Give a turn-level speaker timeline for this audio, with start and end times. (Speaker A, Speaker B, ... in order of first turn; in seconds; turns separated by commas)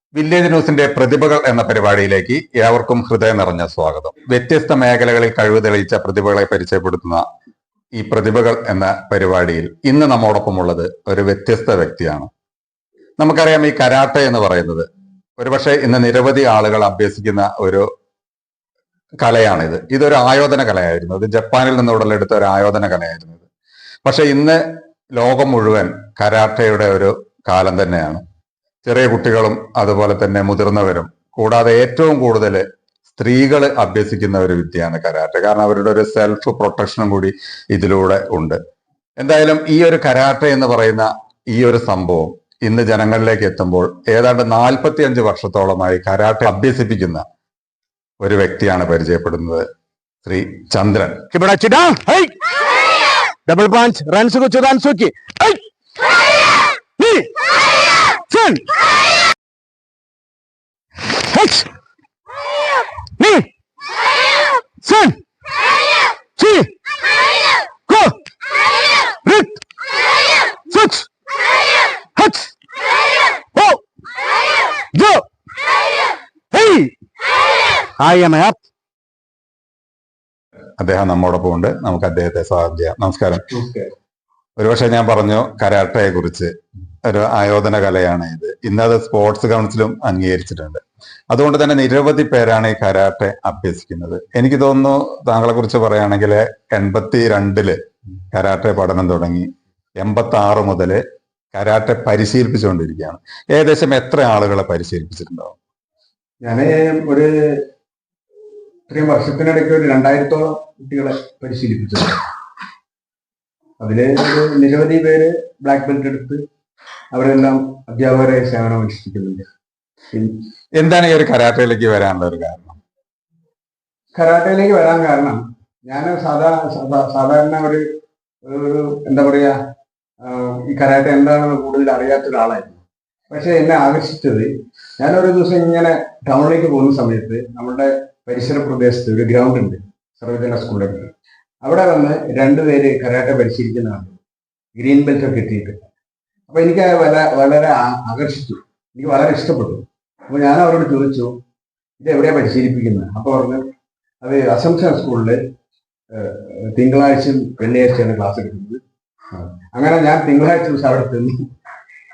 Speaker A: 0.1-7.2, Speaker A: 8.0-12.3, Speaker A: 13.2-14.9, Speaker A: 15.4-17.9, Speaker A: 19.2-23.4, Speaker A: 24.0-24.6, Speaker A: 25.1-28.2, Speaker A: 28.9-38.6, Speaker A: 39.2-47.2, Speaker A: 48.2-49.7, Speaker A: 50.2-51.2, Speaker B: 51.3-52.3, Speaker B: 53.5-55.6, Speaker B: 57.0-57.3, Speaker B: 58.3-58.6, Speaker B: 61.3-61.7, Speaker B: 63.2-63.5, Speaker B: 64.8-65.2, Speaker B: 66.4-66.7, Speaker B: 67.9-68.1, Speaker B: 69.2-69.5, Speaker B: 70.7-71.0, Speaker B: 72.2-72.5, Speaker B: 75.0-75.2, Speaker B: 76.5-76.9, Speaker B: 78.0-78.5, Speaker A: 80.8-83.4, Speaker C: 83.5-83.9, Speaker A: 84.6-86.5, Speaker A: 87.0-97.8, Speaker A: 98.3-101.0, Speaker A: 101.5-105.5, Speaker C: 106.4-107.6, Speaker C: 108.9-112.2, Speaker C: 113.8-116.4, Speaker C: 117.1-119.5, Speaker A: 120.8-122.8, Speaker C: 124.1-127.9, Speaker C: 128.5-129.6, Speaker C: 130.2-141.1, Speaker C: 141.6-144.2, Speaker C: 144.8-145.8, Speaker C: 146.5-151.3, Speaker C: 152.0-153.6, Speaker C: 154.2-155.4, Speaker C: 156.1-158.8, Speaker C: 159.7-161.4